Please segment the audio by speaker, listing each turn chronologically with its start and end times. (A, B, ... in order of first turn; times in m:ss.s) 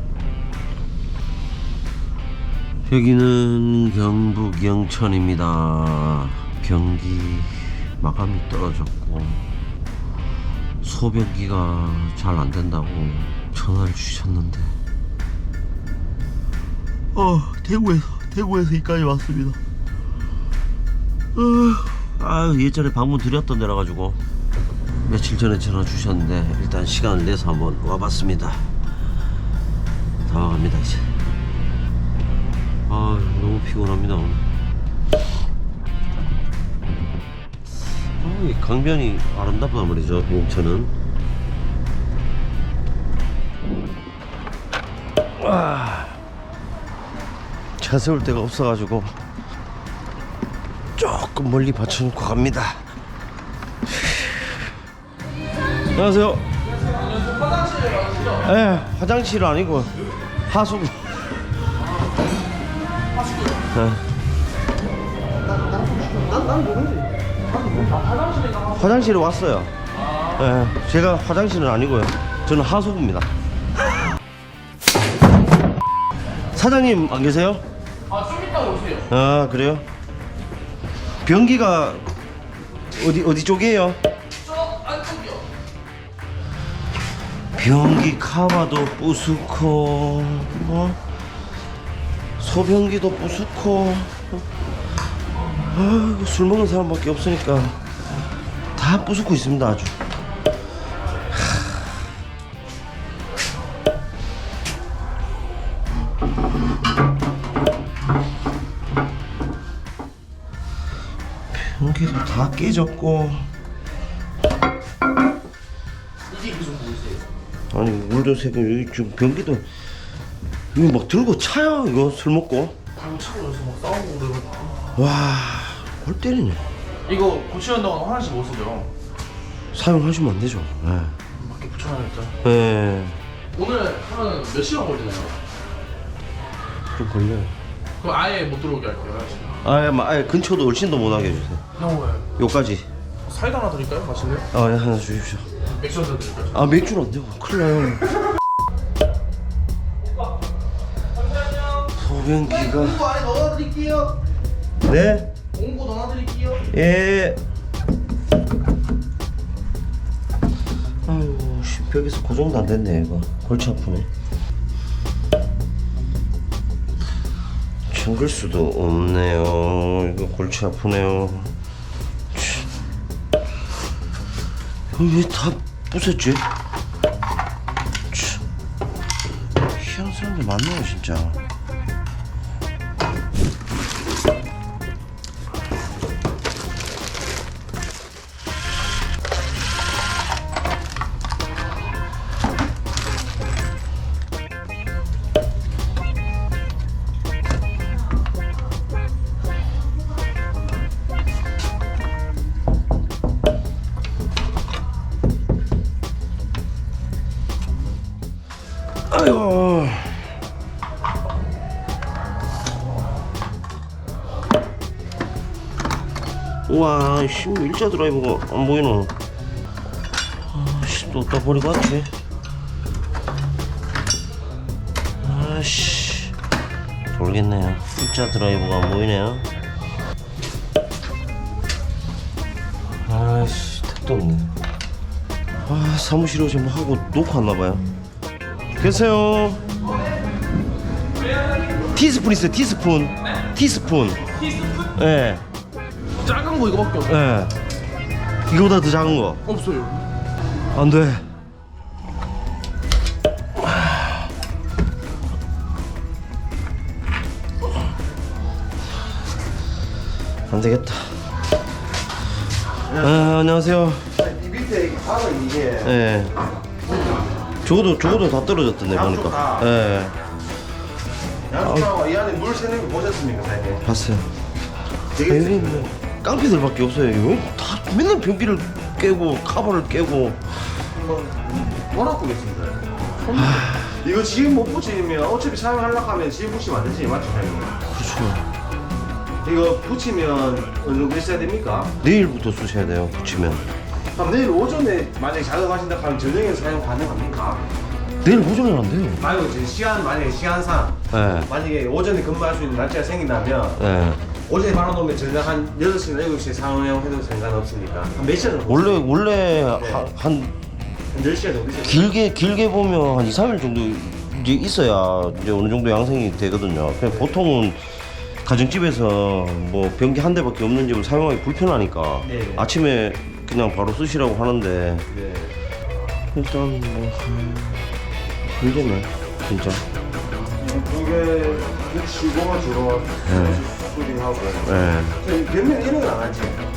0:02.9-0:09.4 A
0:10.8-0:14.8 A
0:17.1-0:19.6 A
0:21.3-0:24.2 A
0:25.0-0:28.7 A
0:30.2-0:31.1 A
0:32.9-0:34.4 A
0:38.2-0:40.9 A
0:45.4-0:46.2 A
0:47.8-0:49.2 A
0:51.0-0:52.9 A
0:53.9-0:54.4 A
0:55.9-0:56.4 A
0:56.9-0:58.4 B
0:58.3-0:59.9 A
1:00.5-1:01.3 A
1:03.2-1:03.6 B
1:03.7-1:04.0 A
1:05.6-1:07.1 C
1:07.6-1:08.8 B
1:08.7-1:09.7 A
1:10.3-1:13.3 A
1:16.5-1:17.6 A
1:18.1-1:19.1 B
1:19.1-1:19.8 A
1:21.2-1:22.0 A
1:22.8-1:24.0 A
1:24.4-1:25.4 B
1:27.5-1:31.0 A
1:32.4-1:34.4 A
1:35.4-1:37.8 A
1:38.8-1:40.0 A
1:51.5-1:53.5 A
1:56.3-1:57.2 B
1:57.7-1:59.6 A
2:00.7-2:02.8 A
2:03.0-2:04.8 B
2:05.0-2:06.6 A
2:07.1-2:08.9 B
2:09.7-2:11.2 A
2:11.4-2:12.3 B
2:12.4-2:13.2 A
2:13.5-2:15.4 B
2:16.9-2:17.5 A
2:18.0-2:19.6 B
2:19.6-2:21.6 A
2:21.8-2:22.2 B
2:22.4-2:22.9 A
2:23.3-2:24.4 B
2:24.5-2:25.5 A
2:25.7-2:26.5 B
2:26.5-2:28.1 A
2:31.5-2:31.8 B
2:31.9-2:33.1 A
2:32.6-2:34.2 B
2:34.8-2:35.3 A
2:35.5-2:36.6 B
2:36.7-2:37.4 A
2:41.0-2:44.1 A
2:47.9-2:51.5 A
2:52.3-2:52.7 A
2:54.9-2:56.4 A
2:58.1-2:58.4 A
2:59.7-3:01.4 A
3:29.1-3:30.2 A
3:36.7-3:39.1 A
3:40.5-3:42.1 A
3:45.2-3:46.4 A
3:47.1-3:49.4 A
3:53.0-3:54.6 A
3:55.6-3:57.8 A
3:58.8-3:59.6 A
4:01.9-4:04.2 A
4:04.9-4:05.4 A
4:06.2-4:07.1 B
4:07.0-4:07.5 A
4:08.5-4:09.4 A
4:09.4-4:10.0 B
4:10.7-4:11.2 A
4:13.6-4:14.2 A
4:20.5-4:21.2 A
4:22.9-4:23.2 C
4:22.9-4:24.1 A
4:24.1-4:26.0 C
4:25.8-4:26.3 A
4:27.6-4:30.2 A
4:28.9-4:29.7 C
4:31.5-4:33.8 C
4:31.6-4:31.9 A
4:33.8-4:34.3 A
4:35.1-4:35.9 C
4:35.3-4:40.6 A
4:41.0-4:47.7 C
4:43.3-4:44.0 A
4:47.9-4:48.5 A
4:49.4-4:51.9 C
4:52.0-4:53.7 A
4:54.1-4:57.6 C
4:58.2-4:59.2 A
4:59.2-5:03.8 C
5:01.1-5:01.5 A
5:03.8-5:04.2 A
5:04.5-5:09.1 C
5:08.7-5:10.5 A
5:09.7-5:10.1 C
5:11.1-5:12.1 C
5:11.8-5:17.8 A
5:18.4-5:25.0 A
5:22.2-5:22.7 C
5:25.1-5:25.5 C
5:26.3-5:27.9 A
5:28.5-5:29.8 A
5:30.3-5:36.6 C
5:33.2-5:33.6 A
5:34.6-5:35.2 A